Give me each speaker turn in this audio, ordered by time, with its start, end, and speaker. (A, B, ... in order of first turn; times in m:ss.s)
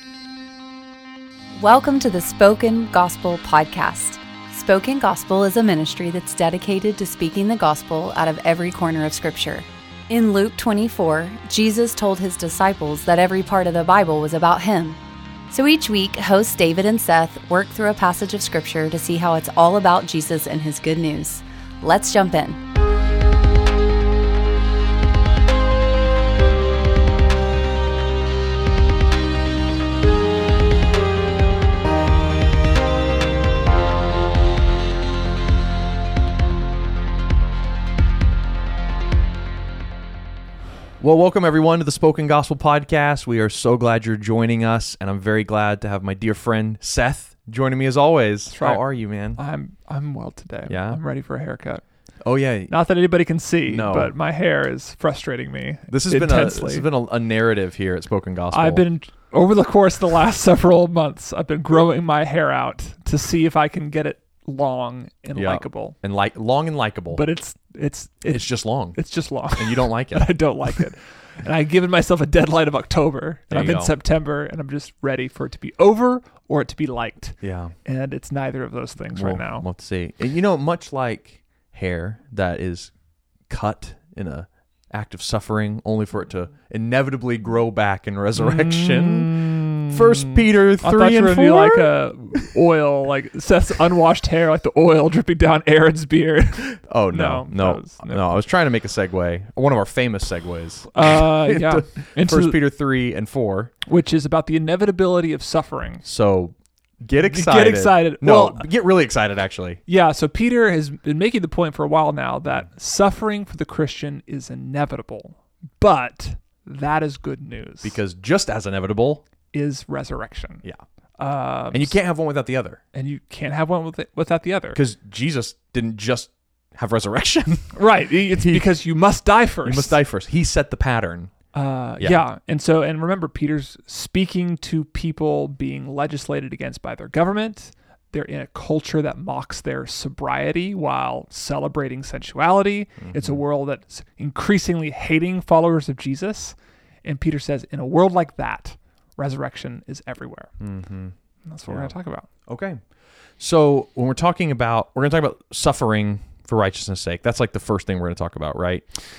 0:01.6-0:15.0 A
0:15.5-0:22.6 A
0:41.0-0:49.4 B
0:48.5-0:51.8 C
0:50.6-0:51.0 B
0:52.2-0:52.7 B
0:52.7-0:56.8 C
0:53.6-0:54.1 B
0:55.9-0:58.8 B
0:58.5-1:06.0 C
1:05.3-1:07.2 B
1:07.1-1:19.6 C
1:08.3-1:09.0 B
1:09.5-1:10.3 B
1:13.5-1:13.9 B
1:17.4-1:17.8 B
1:19.1-1:22.9 B
1:23.5-1:32.5 B
1:28.4-1:38.3 C
1:36.8-1:43.7 B
1:40.9-1:42.6 C
1:43.8-1:46.0 C
1:46.0-1:49.8 B
1:47.2-1:48.7 C
1:49.9-1:58.0 C
1:57.8-1:59.2 B
1:59.5-2:00.6 C
2:01.2-2:02.0 C
2:01.7-2:02.8 B
2:02.9-2:04.8 C
2:04.7-2:07.8 B
2:07.7-2:10.0 C
2:08.3-2:08.6 B
2:09.6-2:11.3 B
2:11.5-2:30.5 C
2:23.0-2:23.4 B
2:30.6-2:31.1 B
2:31.4-2:32.3 C
2:31.7-2:31.9 B
2:32.5-2:32.8 B
2:33.4-2:38.8 B